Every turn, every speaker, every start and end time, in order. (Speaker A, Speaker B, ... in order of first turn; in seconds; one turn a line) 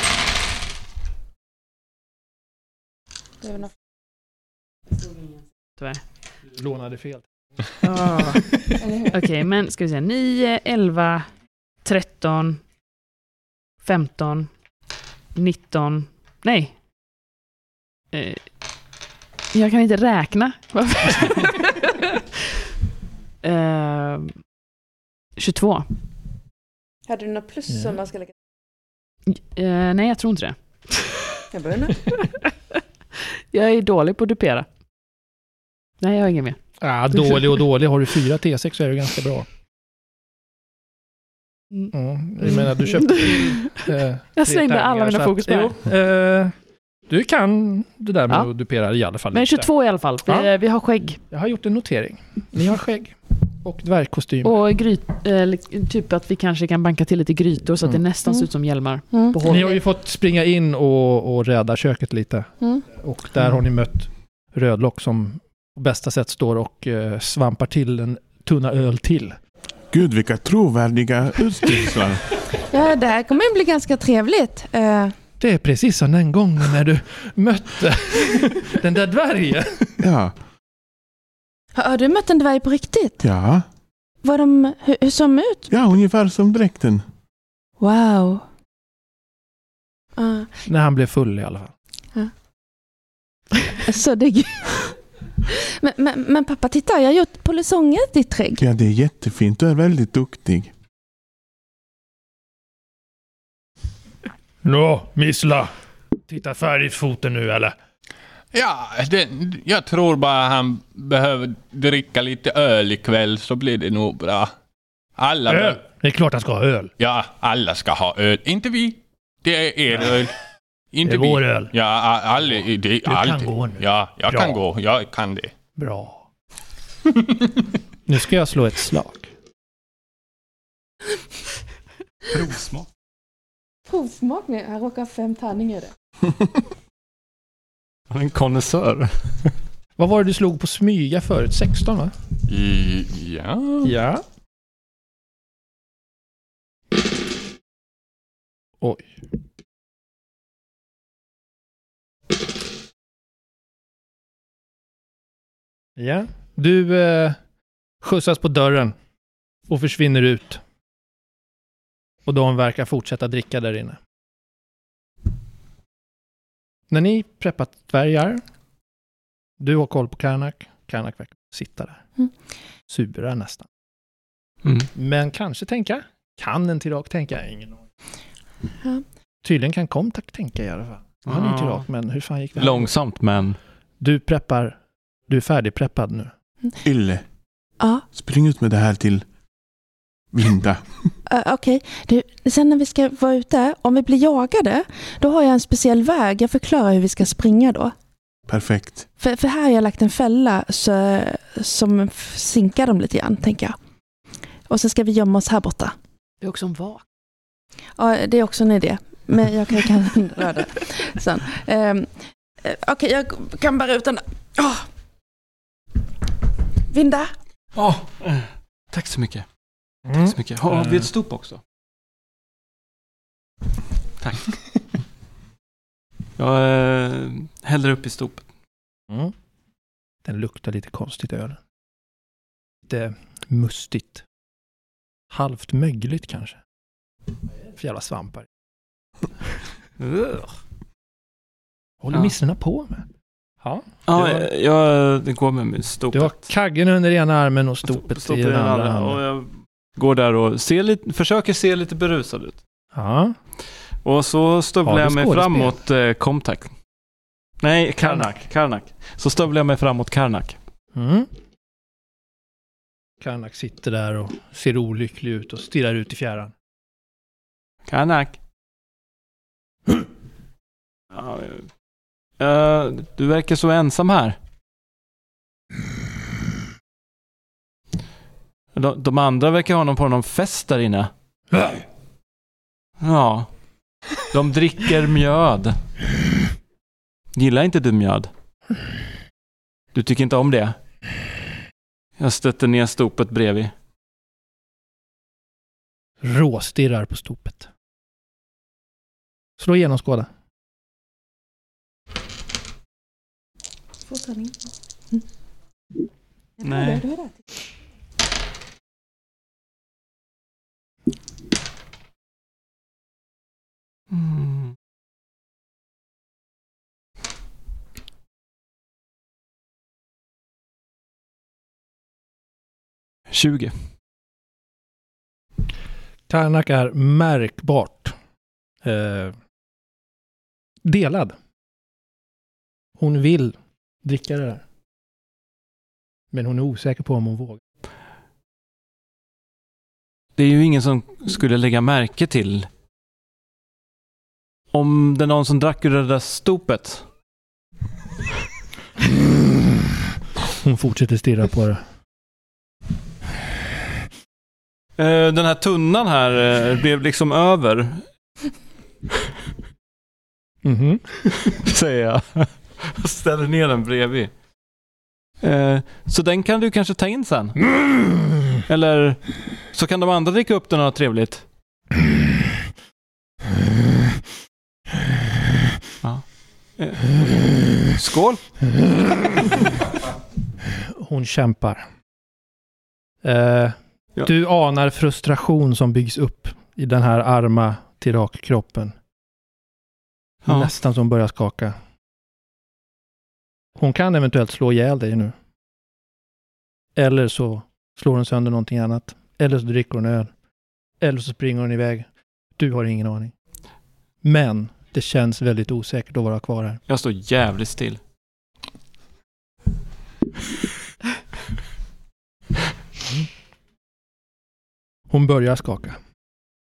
Speaker A: 3.4-3.7
Speaker B: 6.5-7.7
Speaker C: 7.8-11.2
Speaker A: 8.8-9.1
Speaker C: 11.8-12.6
Speaker C: 13.8-14.5
Speaker C: 15.3-16.7
Speaker C: 18.1-18.4
Speaker C: 19.5-22.1
Speaker C: 23.4-24.3
Speaker C: 25.4-25.9
Speaker A: 27.1-28.3
Speaker C: 29.3-31.2
Speaker A: 31.5-32.1
Speaker C: 33.5-34.7
Speaker C: 36.0-36.6
Speaker B: 36.8-39.5
Speaker B: 41.9-46.5
Speaker C: 43.0-43.8
Speaker C: 44.4-45.7
Speaker B: 47.1-49.7
Speaker C: 49.3-51.2
Speaker B: 51.3-54.6
Speaker C: 54.4-59.8
Speaker A: 59.1-59.4
Speaker B: 59.4-69.4
Speaker D: 69.9-72.2
Speaker A: 72.6-75.1
Speaker B: 75.4-80.0
Speaker D: 80.0-80.3
Speaker A: 81.7-83.2
Speaker D: 83.2-83.6
Speaker A: 84.2-85.7
Speaker D: 85.7-87.0
Speaker A: 87.8-88.4
Speaker A: 90.2-90.5
Speaker B: 90.7-91.7
Speaker A: 93.7-98.6
Speaker D: 98.6-100.7
Speaker B: 104.6-105.7
Speaker B: 106.3-107.7
Speaker E: 108.5-114.5
Speaker E: 115.2-115.8
Speaker B: 115.5-116.9
Speaker E: 117.0-120.3
Speaker E: 120.9-125.5
Speaker B: 121.0-121.7
Speaker B: 123.0-124.6
Speaker B: 125.8-126.2
Speaker E: 127.1-127.5
Speaker B: 128.1-129.3
Speaker F: 132.3-132.8
Speaker A: 133.9-135.9
Speaker F: 138.1-139.5
Speaker B: 140.0-142.1
Speaker E: 142.5-143.9
Speaker B: 143.8-144.2
Speaker B: 148.8-149.1
Speaker B: 156.0-157.4
Speaker B: 158.0-158.9
Speaker B: 159.7-160.6
Speaker B: 162.2-164.0
Speaker B: 166.9-168.4
Speaker B: 169.6-172.0
Speaker B: 172.9-173.7
Speaker B: 174.9-177.8
Speaker B: 179.4-182.9
Speaker F: 181.3-181.8
Speaker F: 182.5-183.6
Speaker B: 184.0-186.3
Speaker D: 186.8-187.2
Speaker A: 187.8-188.0
Speaker D: 188.1-189.2
Speaker D: 190.3-190.8
Speaker A: 191.3-197.9
Speaker D: 198.5-199.1
Speaker A: 199.2-203.8
Speaker A: 204.7-205.9
Speaker C: 206.4-207.0
Speaker A: 208.0-212.1
Speaker A: 212.6-214.8
Speaker A: 216.9-217.3
Speaker F: 217.8-219.4
Speaker B: 220.1-221.1
Speaker F: 220.2-221.6
Speaker F: 224.2-224.5
Speaker F: 226.4-228.4
Speaker B: 230.2-231.6
Speaker B: 232.9-234.2
Speaker B: 235.3-236.6
Speaker B: 237.8-238.5
Speaker F: 240.0-240.5
Speaker B: 242.0-243.1
Speaker B: 243.6-244.4
Speaker F: 244.1-246.4
Speaker B: 246.1-249.2
Speaker F: 247.9-252.6
Speaker B: 252.9-253.3
Speaker F: 254.0-256.7
Speaker B: 254.8-255.7
Speaker F: 257.6-260.6
Speaker B: 258.0-258.4
Speaker B: 260.9-261.3
Speaker B: 263.2-266.5
Speaker F: 267.9-268.4
Speaker F: 271.1-271.7
Speaker F: 272.4-274.4
Speaker F: 278.7-281.1
Speaker F: 283.0-283.5
Speaker F: 284.3-285.8
Speaker F: 287.3-288.3
Speaker F: 289.9-290.8
Speaker F: 292.2-293.7
Speaker B: 296.2-297.7
Speaker B: 299.6-300.3
Speaker A: 304.1-304.6
Speaker A: 306.6-307.3
Speaker F: 306.6-307.0
Speaker F: 314.1-314.7
Speaker F: 323.3-323.7
Speaker B: 326.3-328.1
Speaker B: 328.8-329.3
Speaker B: 330.8-331.3
Speaker B: 333.0-334.6
Speaker B: 336.3-337.6
Speaker F: 340.4-342.7
Speaker F: 344.7-347.0
Speaker B: 349.2-349.7
Speaker B: 350.6-351.8
Speaker F: 355.0-358.0
Speaker B: 360.6-361.0
Speaker F: 361.4-364.3
Speaker F: 365.4-367.6
Speaker F: 368.7-371.4
Speaker F: 376.8-377.2
Speaker F: 377.9-378.4
Speaker B: 380.9-381.8
Speaker B: 383.2-388.9
Speaker B: 390.4-391.8
Speaker B: 393.8-395.3
Speaker B: 396.9-400.3
Speaker B: 401.0-403.3
Speaker B: 404.2-406.8
Speaker F: 406.9-408.0
Speaker B: 415.1-416.0